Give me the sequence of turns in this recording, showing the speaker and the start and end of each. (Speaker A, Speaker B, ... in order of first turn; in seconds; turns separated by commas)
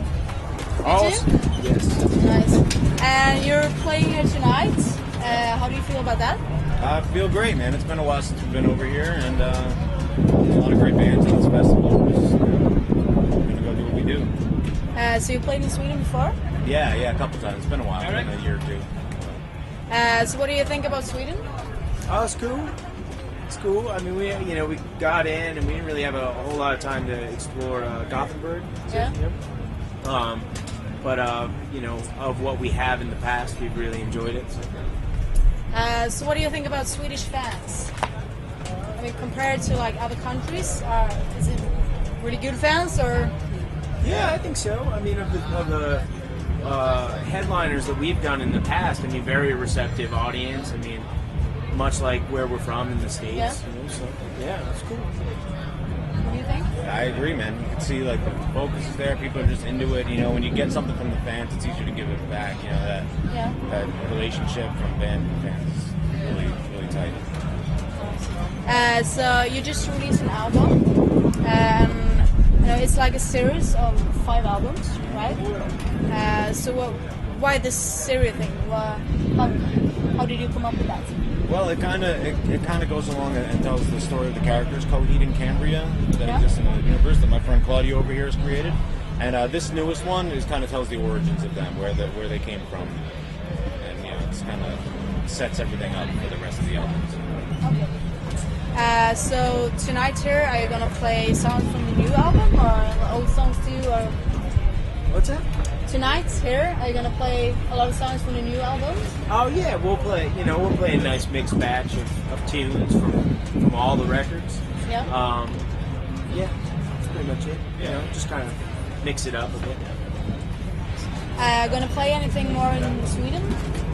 Speaker A: 0.8-2.0, Speaker B: 0.8-1.3, Speaker B: 2.0-6.4, Speaker C: 6.8-9.8, Speaker C: 10.3-12.8, Speaker C: 13.4-14.3, Speaker B: 14.9-16.4, Speaker C: 16.6-19.4, Speaker A: 18.0-18.3, Speaker B: 19.9-21.5, Speaker A: 22.1-22.8, Speaker A: 23.5-29.4, Speaker B: 28.9-29.1, Speaker A: 30.0-30.5, Speaker A: 31.0-34.7, Speaker B: 35.7-37.9, Speaker B: 39.0-43.3, Speaker A: 44.0-46.0, Speaker A: 46.6-51.1, Speaker A: 51.7-55.1, Speaker B: 53.3-53.6, Speaker B: 56.2-56.7, Speaker C: 56.8-63.1, Speaker B: 63.3-63.6, Speaker C: 63.7-67.3, Speaker B: 68.0-70.8, Speaker B: 71.4-75.5, Speaker B: 76.1-81.1, Speaker C: 81.5-93.1, Speaker C: 93.8-97.3, Speaker B: 97.6-97.9, Speaker B: 98.7-104.2, Speaker A: 105.1-105.5, Speaker B: 105.9-109.2, Speaker A: 109.3-115.6, Speaker B: 114.8-115.1, Speaker A: 116.3-116.5, Speaker A: 117.1-119.9, Speaker B: 121.4-123.6